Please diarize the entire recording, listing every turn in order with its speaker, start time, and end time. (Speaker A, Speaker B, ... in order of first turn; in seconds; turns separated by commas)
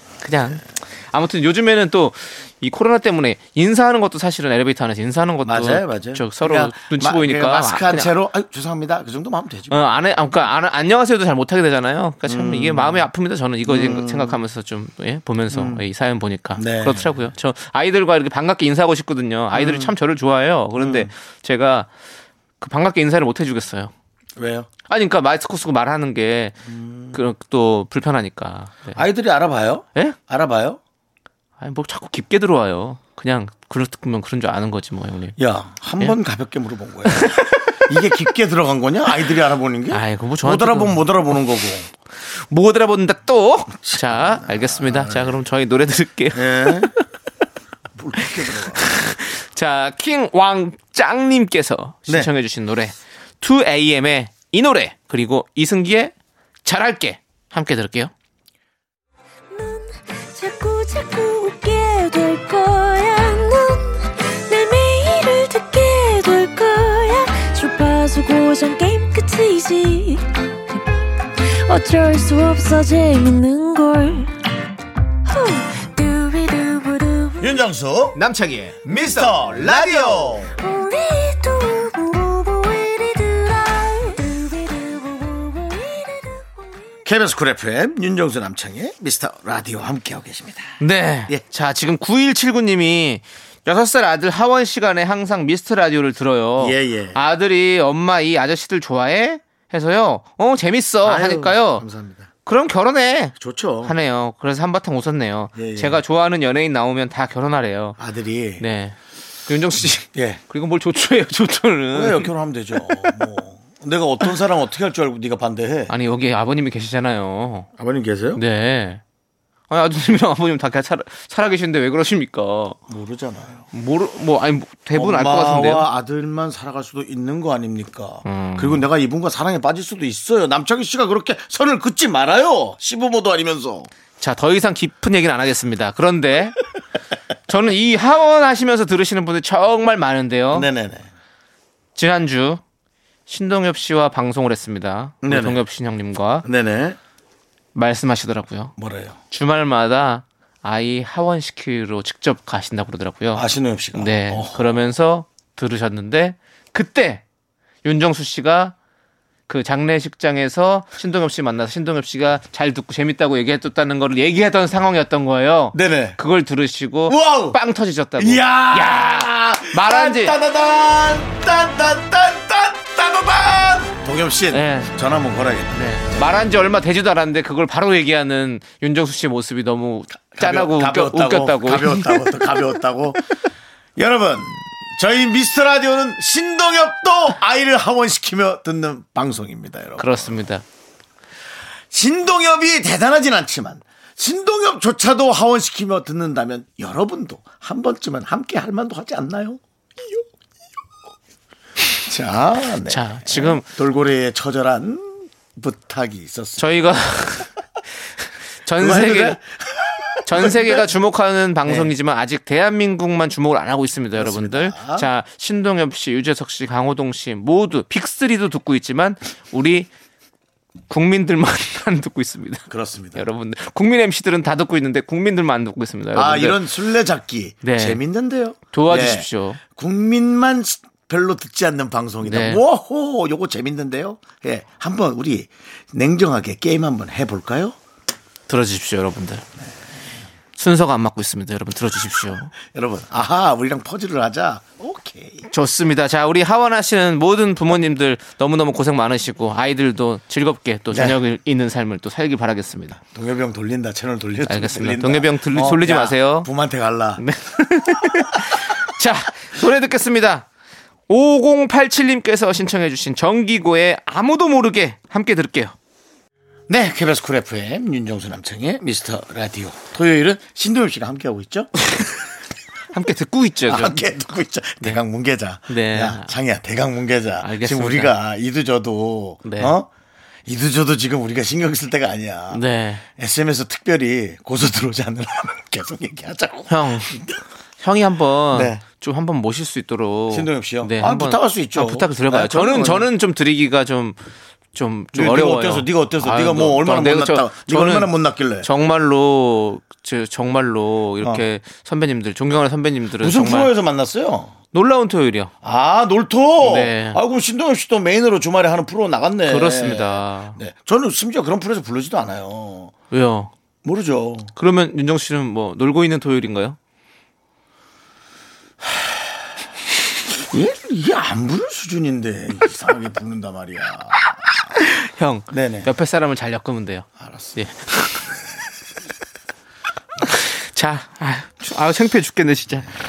Speaker A: 0.2-8.1, Speaker B: 5.5-9.8, Speaker A: 9.7-21.9, Speaker B: 12.3-13.1, Speaker B: 13.7-14.4, Speaker B: 15.5-15.8, Speaker B: 16.6-17.3, Speaker B: 19.5-19.9, Speaker B: 20.8-21.1, Speaker A: 22.6-23.9, Speaker B: 24.4-24.7, Speaker A: 24.9-26.6, Speaker B: 26.7-27.2, Speaker A: 27.1-29.0, Speaker B: 28.9-30.8, Speaker A: 31.6-35.4, Speaker B: 35.4-41.9, Speaker A: 37.1-37.8, Speaker A: 39.9-41.0, Speaker A: 42.2-46.9, Speaker B: 43.8-45.4, Speaker B: 46.4-47.0, Speaker B: 48.0-48.8, Speaker A: 48.2-56.1, Speaker A: 56.6-58.1, Speaker C: 59.5-70.8, Speaker C: 71.4-74.3, Speaker C: 75.3-77.6, Speaker B: 77.4-78.2, Speaker A: 78.1-80.4, Speaker B: 78.9-80.5, Speaker C: 80.6-86.7, Speaker B: 87.1-90.7, Speaker A: 90.8-101.8, Speaker B: 96.6-97.2, Speaker B: 101.0-102.3, Speaker A: 102.5-108.0, Speaker B: 103.4-103.9, Speaker B: 105.6-106.0, Speaker B: 108.0-108.6, Speaker A: 108.6-109.0, Speaker A: 109.5-113.2, Speaker B: 110.1-110.4, Speaker B: 111.9-115.9, Speaker A: 115.9-117.7, Speaker B: 117.8-118.4, Speaker A: 118.3-119.0, Speaker A: 119.7-122.8, Speaker B: 122.9-123.7, Speaker A: 123.7-125.9, Speaker B: 124.9-133.9, Speaker A: 128.2-128.9, Speaker A: 134.2-136.6, Speaker A: 137.5-140.7, Speaker B: 140.5-141.1, Speaker A: 141.9-142.6, Speaker A: 143.3-146.4, Speaker B: 145.2-145.6, Speaker B: 146.4-147.0, Speaker A: 147.8-148.7, Speaker B: 148.8-149.2, Speaker A: 149.3-157.2, Speaker B: 153.3-154.8, Speaker A: 157.8-158.8, Speaker A: 159.5-170.3, Speaker B: 165.7-166.2, Speaker B: 167.1-167.6, Speaker B: 168.2-176.5, Speaker A: 174.5-174.9, Speaker A: 175.7-182.6, Speaker B: 180.3-183.2, Speaker B: 184.0-190.4, Speaker A: 190.0-190.6, Speaker B: 191.9-199.6, Speaker B: 202.1-206.7, Speaker A: 202.9-203.7, Speaker A: 206.6-207.5, Speaker A: 208.7-209.4, Speaker B: 208.8-210.9, Speaker A: 210.3-219.9, Speaker B: 211.7-211.9, Speaker B: 214.2-215.1, Speaker A: 220.9-226.7, Speaker B: 222.7-223.3, Speaker B: 226.2-237.8, Speaker A: 227.6-228.0, Speaker A: 228.7-229.6, Speaker A: 232.2-232.6, Speaker A: 238.5-239.4, Speaker A: 240.6-242.5, Speaker B: 242.6-245.4, Speaker A: 245.5-253.0, Speaker B: 250.9-251.2, Speaker B: 253.1-257.2, Speaker A: 254.5-256.5, Speaker A: 257.2-260.4, Speaker B: 258.0-258.4, Speaker A: 261.1-265.8, Speaker B: 266.7-271.8, Speaker A: 272.9-274.0, Speaker B: 273.7-279.9, Speaker A: 275.7-276.3, Speaker A: 277.4-278.1, Speaker A: 279.4-279.7, Speaker B: 280.4-287.4, Speaker A: 282.5-283.0, Speaker A: 286.7-287.2, Speaker A: 287.8-294.2, Speaker B: 288.5-288.8, Speaker B: 290.3-293.1, Speaker A: 294.7-298.1, Speaker B: 295.1-298.7, Speaker A: 298.6-303.7, Speaker B: 303.2-304.5, Speaker A: 304.7-305.5, Speaker B: 305.6-312.9, Speaker A: 306.6-307.2, Speaker A: 309.5-310.6, Speaker A: 313.1-313.5, Speaker B: 313.8-314.5, Speaker A: 314.6-316.8, Speaker B: 320.5-324.3, Speaker A: 324.8-328.3, Speaker B: 325.5-325.9, Speaker B: 327.2-327.6, Speaker A: 330.2-332.9